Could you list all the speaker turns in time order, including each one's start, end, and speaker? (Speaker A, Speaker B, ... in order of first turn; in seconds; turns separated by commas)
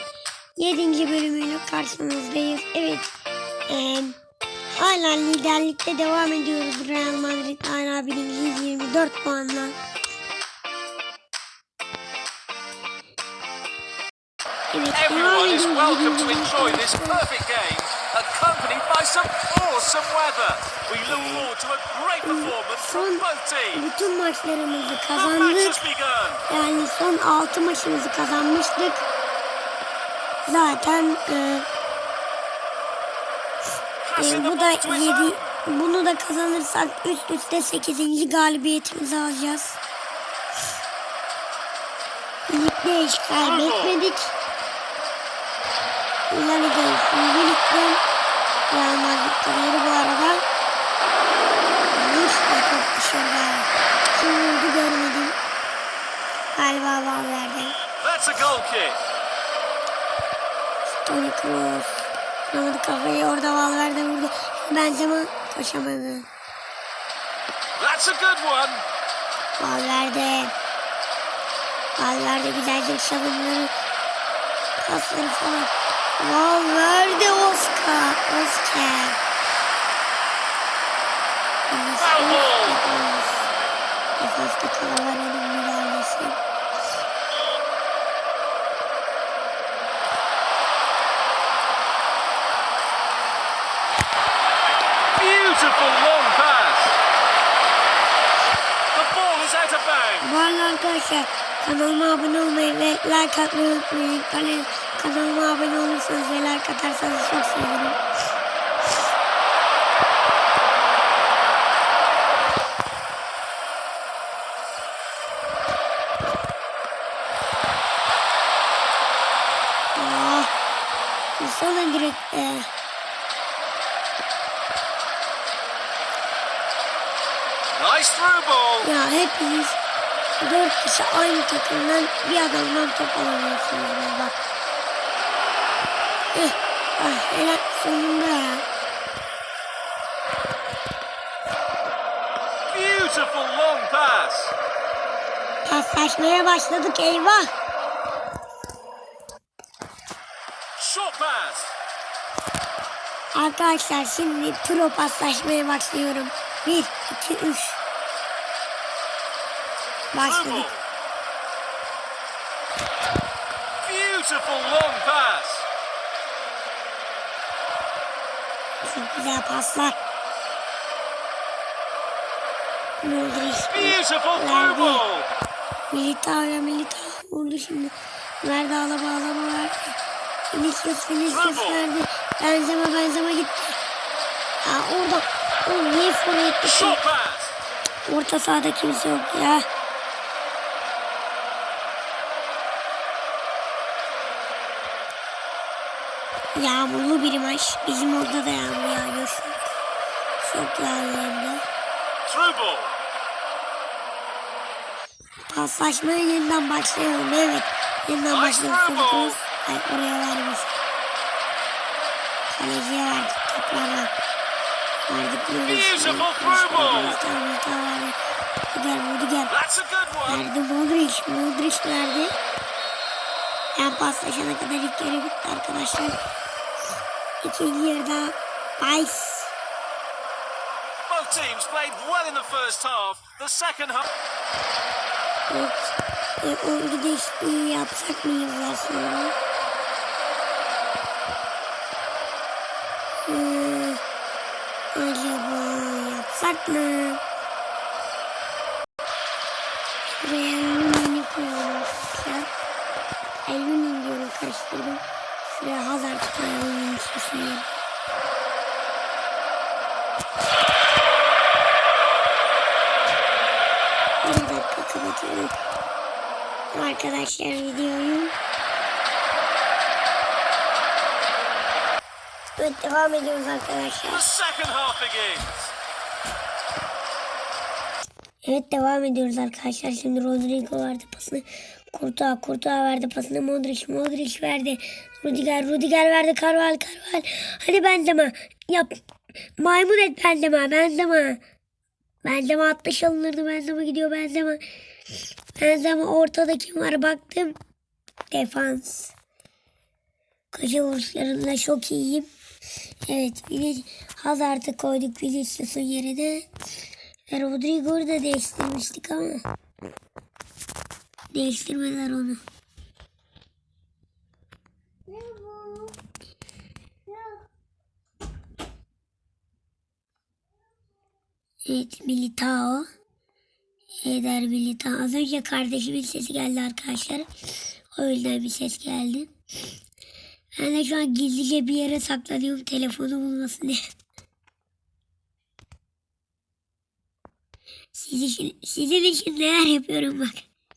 Speaker A: 0.6-3.1, Speaker A: 3.7-4.2, Speaker A: 4.7-9.8, Speaker A: 14.7-17.2, Speaker B: 14.9-23.9, Speaker A: 21.1-21.5, Speaker A: 22.2-25.8, Speaker B: 25.1-26.4, Speaker A: 26.5-29.0, Speaker A: 30.4-31.7, Speaker B: 34.0-35.6, Speaker A: 34.1-39.8, Speaker A: 42.5-44.3, Speaker B: 43.4-44.0, Speaker A: 46.3-48.0, Speaker A: 48.7-50.4, Speaker A: 51.9-55.4, Speaker A: 56.5-57.7, Speaker B: 58.0-59.0, Speaker A: 60.9-66.3, Speaker B: 67.8-68.8, Speaker A: 69.6-70.5, Speaker A: 72.0-73.7, Speaker A: 74.8-79.2, Speaker A: 81.7-83.5, Speaker B: 82.0-82.8, Speaker A: 84.2-86.4, Speaker B: 95.2-97.0, Speaker B: 98.9-100.3, Speaker A: 100.2-108.0, Speaker A: 119.9-120.5, Speaker A: 121.4-122.7, Speaker B: 127.7-128.9, Speaker A: 128.8-129.8, Speaker A: 130.4-134.3, Speaker A: 136.3-138.6, Speaker B: 142.7-144.6, Speaker A: 145.6-147.5, Speaker B: 150.8-151.7, Speaker A: 153.3-157.8, Speaker A: 160.1-160.7, Speaker B: 160.2-160.8, Speaker B: 163.8-165.7, Speaker A: 168.8-170.0, Speaker A: 173.0-175.0, Speaker B: 173.7-175.3, Speaker A: 175.9-180.0, Speaker A: 180.5-183.8, Speaker B: 181.3-181.9, Speaker A: 184.6-187.0, Speaker B: 186.6-187.5, Speaker A: 188.1-189.6, Speaker A: 196.5-199.7, Speaker A: 200.4-201.6, Speaker B: 202.2-202.9, Speaker A: 205.5-210.7, Speaker B: 208.3-209.4, Speaker A: 212.5-214.1, Speaker A: 215.1-218.2, Speaker B: 215.6-217.2, Speaker A: 218.7-219.5, Speaker B: 219.5-220.4, Speaker A: 220.3-222.3, Speaker A: 223.8-226.2, Speaker A: 227.4-229.5, Speaker B: 231.1-234.1, Speaker A: 235.5-239.3, Speaker A: 243.3-244.0, Speaker A: 244.9-247.2, Speaker A: 250.2-252.5, Speaker A: 253.4-257.7, Speaker A: 264.2-265.5, Speaker A: 266.7-268.3, Speaker A: 272.6-274.3, Speaker B: 274.1-275.7, Speaker A: 278.4-289.0, Speaker A: 289.6-291.4, Speaker A: 292.2-294.6, Speaker A: 295.6-297.6, Speaker A: 298.3-299.1, Speaker A: 300.5-302.3, Speaker A: 303.1-306.5, Speaker A: 307.3-309.4, Speaker A: 311.3-312.4, Speaker A: 315.1-315.9, Speaker A: 321.6-322.9, Speaker A: 324.0-327.3, Speaker A: 327.9-329.3, Speaker A: 330.6-333.9, Speaker A: 337.9-340.4